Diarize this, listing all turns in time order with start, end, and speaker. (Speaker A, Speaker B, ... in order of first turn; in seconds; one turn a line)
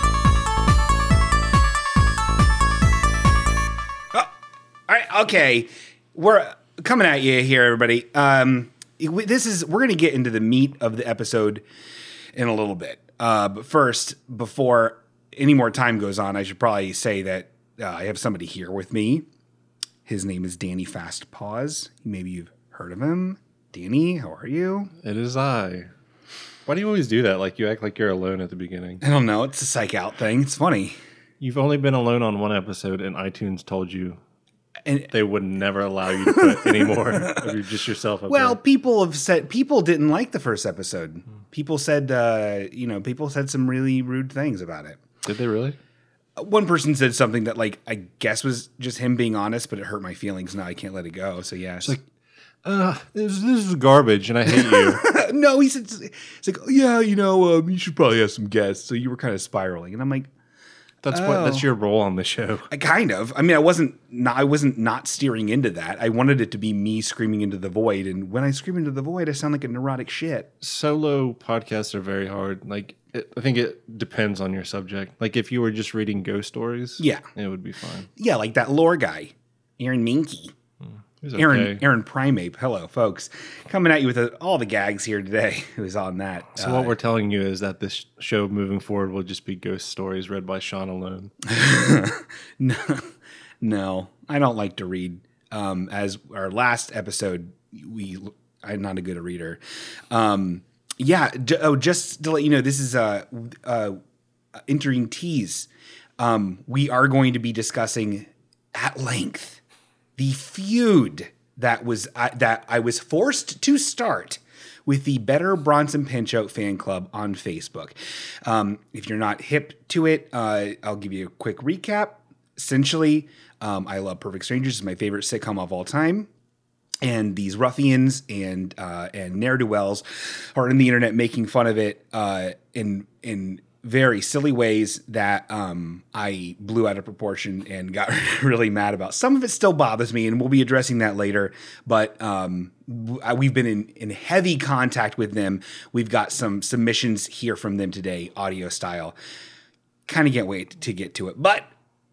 Speaker A: 4.9-11.6
Speaker A: 12.3-19.2
Speaker A: 20.1-24.9
Speaker B: 25.0-25.9
Speaker B: 26.7-29.0
Speaker A: 29.0-30.9
Speaker B: 31.4-34.2
Speaker A: 34.9-35.1
Speaker B: 35.1-38.6
Speaker A: 36.3-37.5
Speaker A: 38.3-45.0
Speaker B: 45.2-45.8
Speaker A: 46.4-52.0
Speaker B: 52.6-55.0
Speaker A: 54.5-60.3
Speaker B: 61.0-62.7
Speaker A: 61.1-61.7
Speaker A: 62.7-70.5
Speaker B: 70.6-78.1
Speaker A: 77.0-77.2
Speaker A: 78.2-80.5
Speaker B: 80.8-81.8
Speaker A: 81.3-86.9
Speaker B: 86.5-91.3
Speaker A: 91.4-93.1
Speaker A: 93.6-99.6
Speaker A: 100.1-104.0
Speaker A: 104.7-105.7
Speaker A: 106.2-109.6
Speaker A: 110.2-126.3
Speaker A: 127.0-149.2
Speaker A: 150.1-151.7